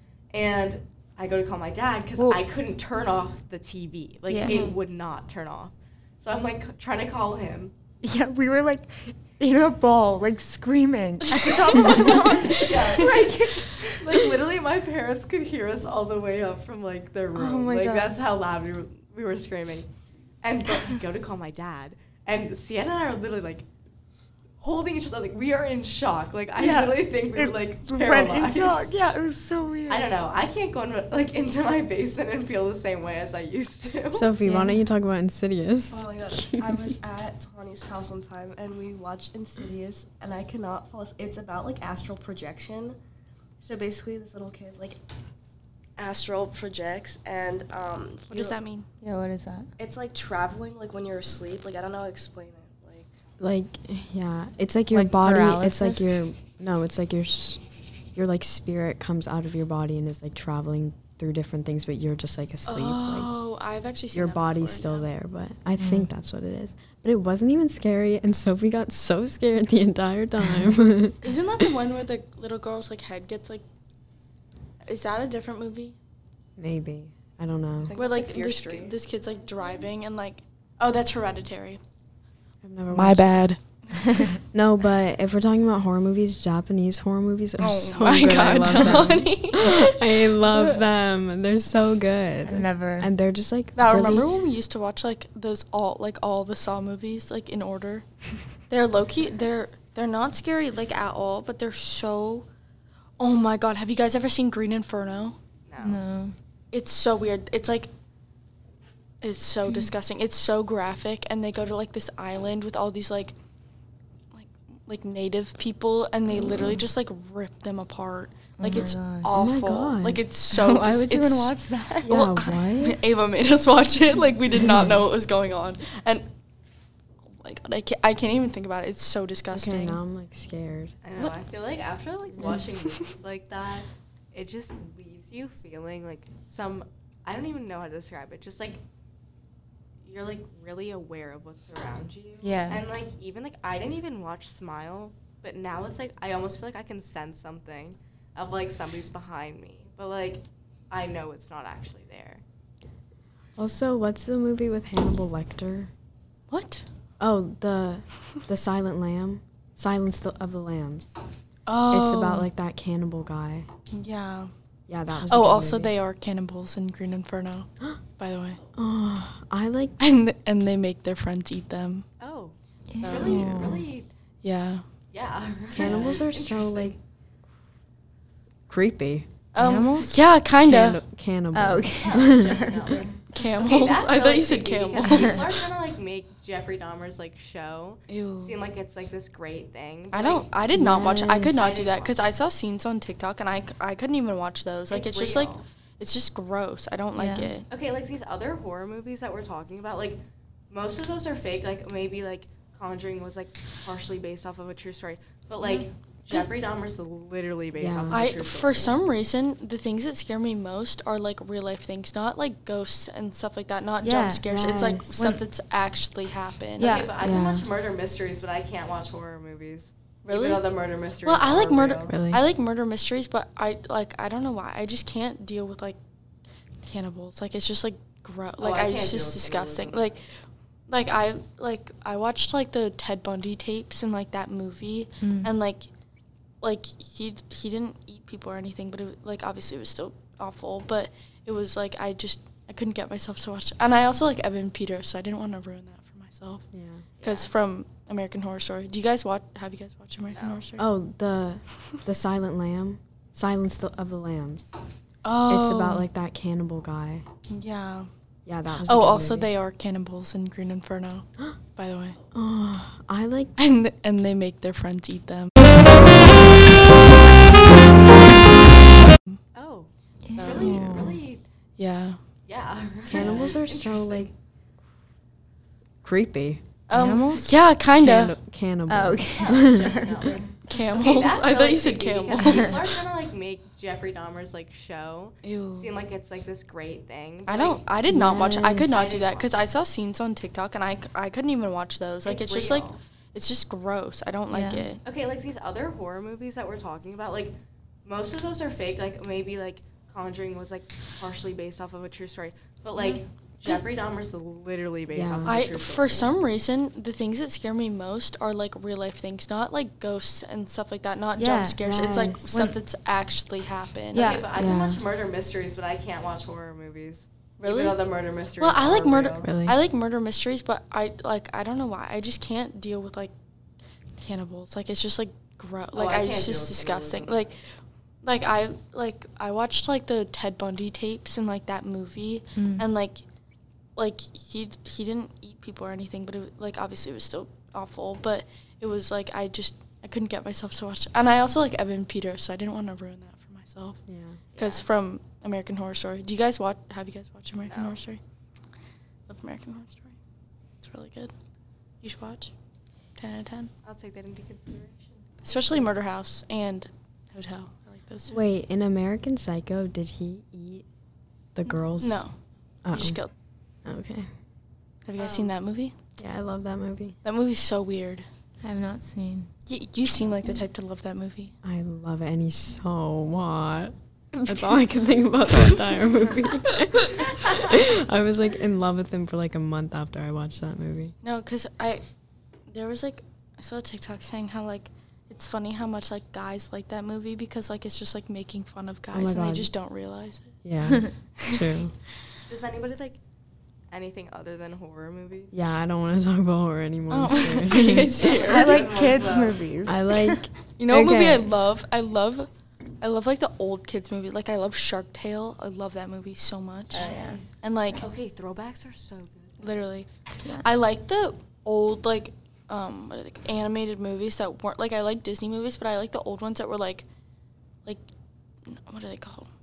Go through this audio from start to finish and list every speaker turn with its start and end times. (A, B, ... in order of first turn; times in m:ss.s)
0:00.3-0:07.7 A
0:02.2-0:02.4 B
0:04.3-0:04.7 B
0:08.0-0:14.2 B
0:11.9-0:19.9 A
0:12.6-0:13.2 C
0:17.3-0:18.2 B
0:20.4-0:23.7 A
0:24.6-0:29.0 A
0:26.6-0:30.1 B
0:29.9-0:34.3 A
0:34.1-0:37.0 D
0:34.4-0:34.8 B
0:35.9-0:43.0 E
0:43.6-0:45.0 E
0:46.0-0:48.6 E
0:48.3-0:48.9 C
0:49.0-0:49.7 B
0:49.8-0:53.1 E
0:53.4-0:57.6 D
0:54.9-0:56.2 B
0:58.1-1:03.3 D
1:02.6-1:05.1 C
1:04.1-1:11.7 D
1:05.8-1:06.1 B
1:11.2-1:13.6 C
1:14.8-1:16.0 C
1:16.6-1:17.9 D
1:17.8-1:19.0 E
1:18.0-1:21.8 C
1:22.6-1:23.5 D
1:22.9-1:24.4 C
1:24.5-1:34.3 D
1:27.6-1:30.0 C
1:32.4-1:33.1 B
1:33.7-1:38.0 C
1:38.7-1:42.5 C
1:43.2-1:45.4 C
1:45.7-1:46.0 A
1:45.8-1:46.3 B
1:46.7-1:47.9 C
1:49.2-1:53.3 C
1:54.3-2:06.3 C
1:58.6-1:59.3 B
1:59.3-2:00.2 D
2:00.5-2:02.1 B
2:02.0-2:03.0 D
2:07.2-2:10.0 C
2:09.5-2:10.9 D
2:11.0-2:18.8 A
2:12.3-2:12.6 D
2:20.0-2:32.4 A
2:22.4-2:22.8 B
2:33.6-2:35.9 D
2:36.5-2:36.8 C
2:37.2-2:41.1 D
2:41.7-2:42.5 C
2:41.9-2:43.7 D
2:43.9-2:44.5 C
2:44.9-2:45.9 D
2:45.2-2:48.6 C
2:48.8-2:50.0 D
2:50.0-2:52.1 C
2:52.2-2:54.1 A
2:52.9-2:53.8 B
2:53.0-2:53.8 C
2:54.4-2:54.8 C
2:55.1-2:57.0 A
2:55.7-2:57.0 D
2:58.7-2:59.3 D
2:59.5-3:01.0 C
2:59.6-3:00.2 B
3:00.6-3:03.0 D
3:01.5-3:03.0 B
3:02.0-3:10.5 A
3:03.2-3:05.7 C
3:05.0-3:05.4 B
3:08.1-3:08.6 C
3:10.1-3:17.6 C
3:10.7-3:11.7 D
3:11.5-3:12.1 A
3:14.9-3:15.6 A
3:17.1-3:17.5 B
3:17.7-3:29.0 A
3:27.7-3:28.2 D
3:28.1-3:37.0 C
3:34.0-3:34.4 B
3:34.4-3:35.3 D
3:36.8-3:42.1 A
3:36.8-3:37.1 B
3:37.2-3:37.6 D
3:40.2-3:40.6 C
3:41.2-3:46.0 C
3:42.1-3:42.4 D
3:46.8-3:50.2 C
3:48.6-3:50.2 A
3:50.9-3:55.9 C
3:55.2-3:55.5 B
3:56.6-4:06.6 C
4:06.7-4:07.0 D
4:07.2-4:07.5 A
4:07.2-4:10.8 C
4:10.3-4:10.6 A
4:10.8-4:14.7 D
4:15.2-4:16.1 C
4:15.4-4:17.2 D
4:17.5-4:18.1 C
4:18.4-4:19.5 D
4:18.8-4:22.2 C
4:22.3-4:23.5 D
4:23.6-4:25.6 C
4:29.1-4:29.4 C
4:29.5-4:31.4 A
4:30.2-4:31.2 B
4:30.4-4:30.7 C
4:30.7-4:31.1 D
4:31.8-4:32.2 C
4:32.4-4:34.3 A
4:33.1-4:34.3 D
4:36.0-4:36.6 D
4:36.9-4:38.3 C
4:36.9-4:37.6 B
4:38.0-4:40.4 D
4:38.9-4:40.2 B
4:39.3-4:47.8 A
4:40.6-4:43.0 C
4:45.4-4:45.9 C
4:47.4-4:55.0 C
4:48.1-4:49.1 D
4:48.7-4:49.5 A
4:52.2-4:53.0 A
4:54.5-4:54.9 B
4:55.0-5:06.3 A
5:03.0-5:03.2 B
5:05.1-5:05.6 D
5:05.4-5:14.3 C
5:11.4-5:11.8 B
5:11.8-5:12.6 D
5:12.5-5:12.8 B
5:14.1-5:14.5 B
5:14.1-5:19.5 A
5:14.5-5:15.0 D
5:17.6-5:18.0 C
5:18.6-5:23.3 C
5:19.4-5:19.8 D
5:24.2-5:27.6 C
5:25.9-5:27.6 A
5:28.2-5:33.2 C
5:32.6-5:32.9 B
5:34.0-5:44.0 C
5:44.1-5:44.4 D
5:44.5-5:44.9 A
5:44.5-5:48.2 C
5:47.6-5:48.0 A
5:49.3-5:50.2 C
5:50.8-5:51.3 C
5:52.0-5:52.5 C
5:53.2-5:53.7 C
5:53.8-5:55.6 A
5:55.4-5:58.4 C
5:58.3-6:00.8 D
6:01.5-6:02.2 D
6:02.0-6:02.3 C
6:02.8-6:03.2 D
6:02.9-6:03.3 C
6:03.8-6:04.3 D
6:05.0-6:05.9 C
6:05.2-6:05.5 A
6:06.2-6:07.2 D
6:07.2-6:08.2 C
6:08.6-6:09.5 B
6:09.7-6:11.5 C
6:11.6-6:21.1 D
6:21.2-6:22.0 C
6:22.7-6:30.6 C
6:29.1-6:29.7 D
6:30.6-6:31.9 D
6:31.4-6:31.6 C
6:32.5-6:33.2 A
6:33.9-6:35.6 A
6:35.5-6:38.4 D
6:37.1-6:38.8 C
6:38.2-6:39.7 A
6:38.4-6:40.4 B
6:39.8-6:41.5 D
6:40.8-6:42.5 C
6:43.0-6:48.0 C
6:46.9-6:47.4 B
6:46.9-6:49.8 A
6:49.6-6:57.0 C
6:58.6-6:59.5 C